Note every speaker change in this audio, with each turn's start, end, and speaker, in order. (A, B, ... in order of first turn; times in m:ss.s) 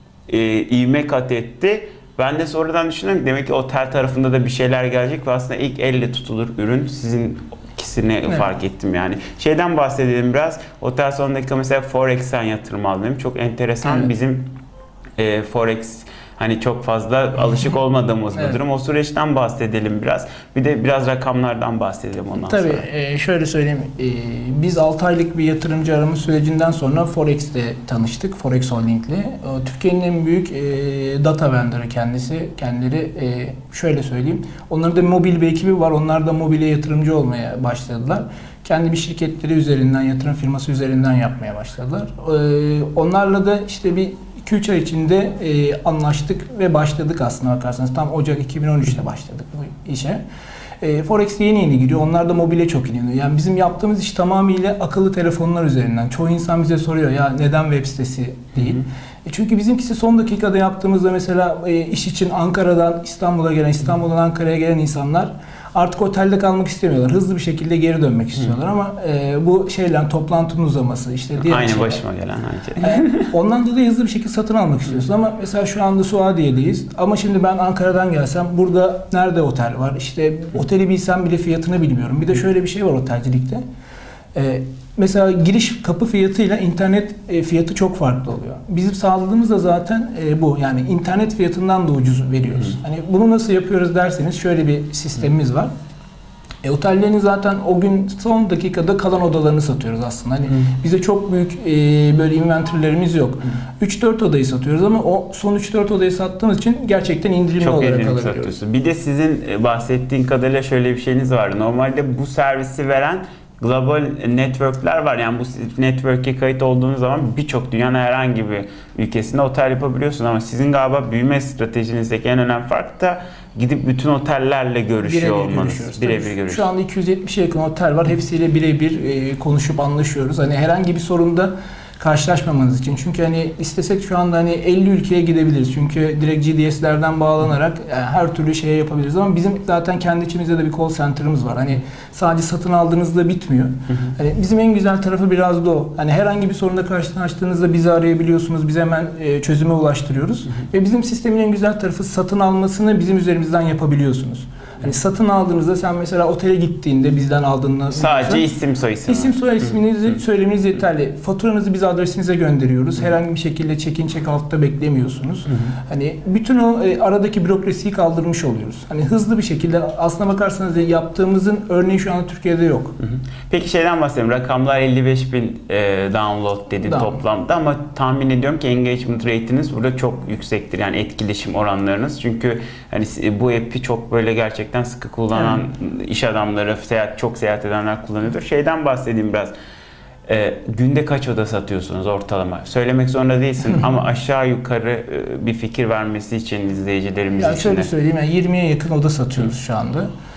0:00.3-0:14.5 A
0:15.2-0:22.8 A
0:22.4-0:50.2 B
0:50.8-1:12.0 B
1:11.4-1:13.3 A
1:12.8-1:23.6 B
1:24.4-1:35.7 B
1:36.6-1:48.5 B
1:47.6-2:06.7 A
2:05.0-2:38.4 B
2:37.9-2:39.3 A
2:39.1-2:53.0 B
2:45.5-2:45.8 A
2:53.0-3:09.5 A
2:56.8-2:57.2 B
3:10.3-3:17.9 A
3:17.4-3:20.1 B